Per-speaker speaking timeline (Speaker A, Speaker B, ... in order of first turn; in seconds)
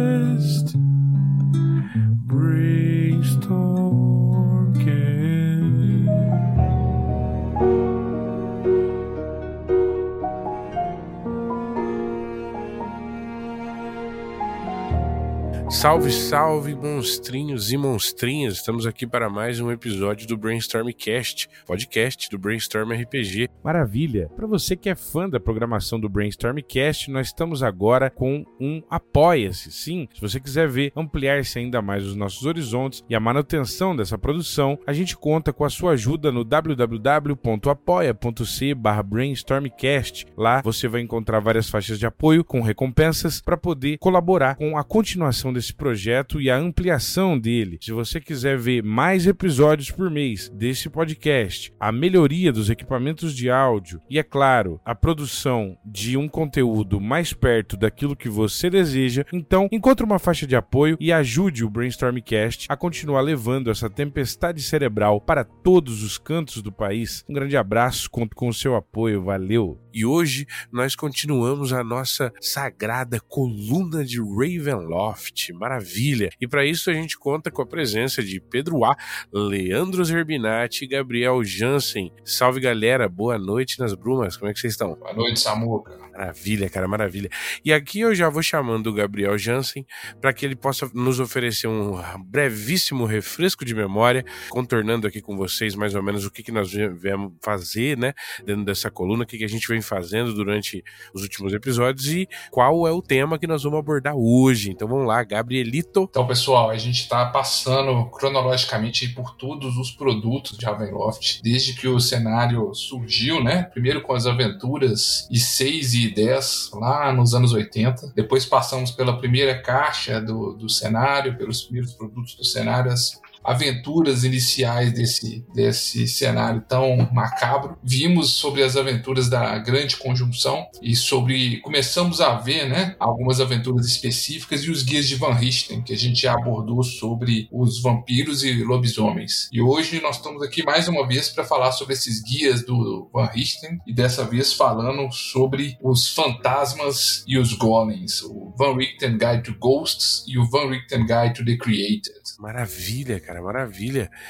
Speaker A: 2.3-4.0, 5.0-5.5, 15.7-23.5, 69.9-85.0, 86.2-106.1, 152.4-154.1
Speaker B: 23.6-69.8
Speaker C: 85.0-86.0, 106.1-152.3